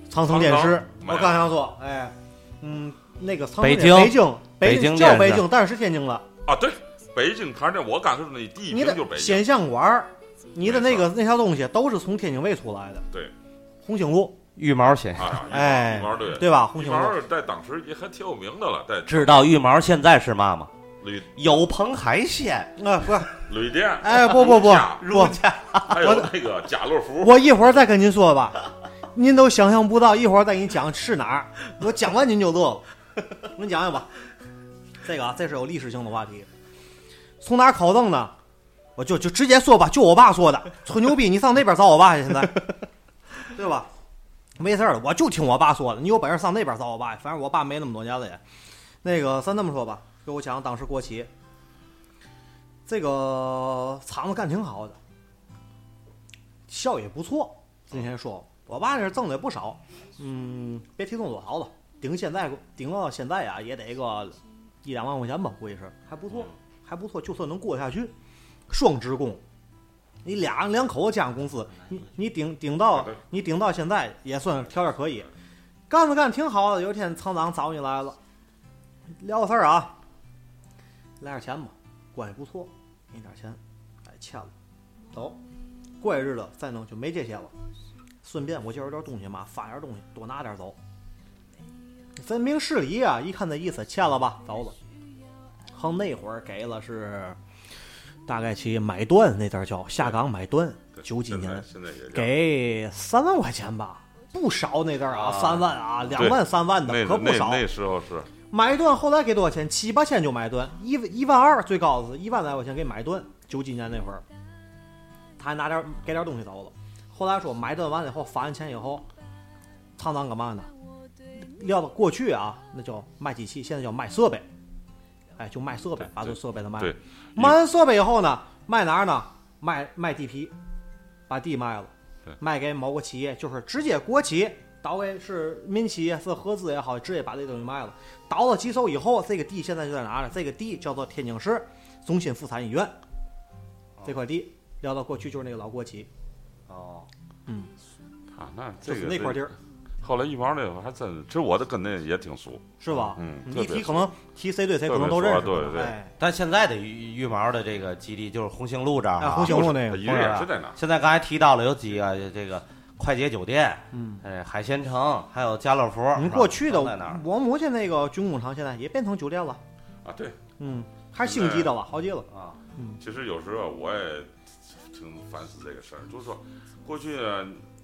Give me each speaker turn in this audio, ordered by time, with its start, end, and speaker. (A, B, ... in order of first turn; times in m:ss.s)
0:00.1-0:06.2 A
0:00.3-0:01.5 B
0:03.6-0:05.4 C
0:06.5-0:09.4 B
0:08.7-0:13.1 A
0:10.6-0:11.1 B
0:13.8-0:14.4 A
0:14.6-0:15.4 C
0:15.2-0:19.5 B
0:15.5-0:17.2 A
0:19.1-0:20.7 C
0:21.0-0:21.6 B
0:21.4-0:22.7 C
0:22.8-0:23.4 A
0:23.4-0:25.1 B
0:24.0-0:25.4 A
0:25.0-0:26.0 C
0:25.8-0:27.6 B
0:26.0-0:26.3 A
0:27.2-0:28.6 A
0:29.2-0:32.8 A
0:33.4-0:34.1 A
0:35.0-0:36.5 A
0:37.4-0:38.3 A
0:39.0-0:42.7 A
0:43.5-0:43.9 A
0:44.6-0:48.4 A
0:49.0-0:51.3 A
0:52.9-0:55.0 A
0:56.7-1:08.1 A
1:08.7-1:09.4 A
1:10.2-1:15.3 A
1:12.9-1:13.2 B
1:15.9-1:18.2 A
1:19.2-1:19.9 A
1:21.2-1:24.5 A
1:25.1-1:25.4 A
1:26.0-1:27.5 A
1:28.2-1:30.8 A
1:32.2-1:34.8 A
1:35.7-1:37.4 A
1:38.3-1:47.6 A
1:41.0-1:42.4 B
1:45.1-1:45.7 C
1:46.2-1:48.3 B
1:48.5-1:54.2 A
1:55.4-1:59.1 A
2:00.0-2:00.7 A
2:01.4-2:04.5 A
2:05.4-2:10.5 A
2:06.0-2:07.6 B
2:11.3-2:22.9 A
2:24.0-2:26.1 A
2:26.7-2:27.1 C
2:28.3-2:34.1 B
2:28.8-2:29.5 A
2:32.8-2:36.1 A
2:34.9-2:35.9 B
2:36.2-2:47.2 C
2:39.2-2:40.3 A
2:39.4-2:40.8 B
2:43.9-2:44.2 A
2:46.2-2:49.6 A
2:50.0-2:50.4 B
2:50.6-2:53.0 A
2:51.2-2:51.7 B
2:52.3-2:52.6 C
2:53.0-2:57.6 B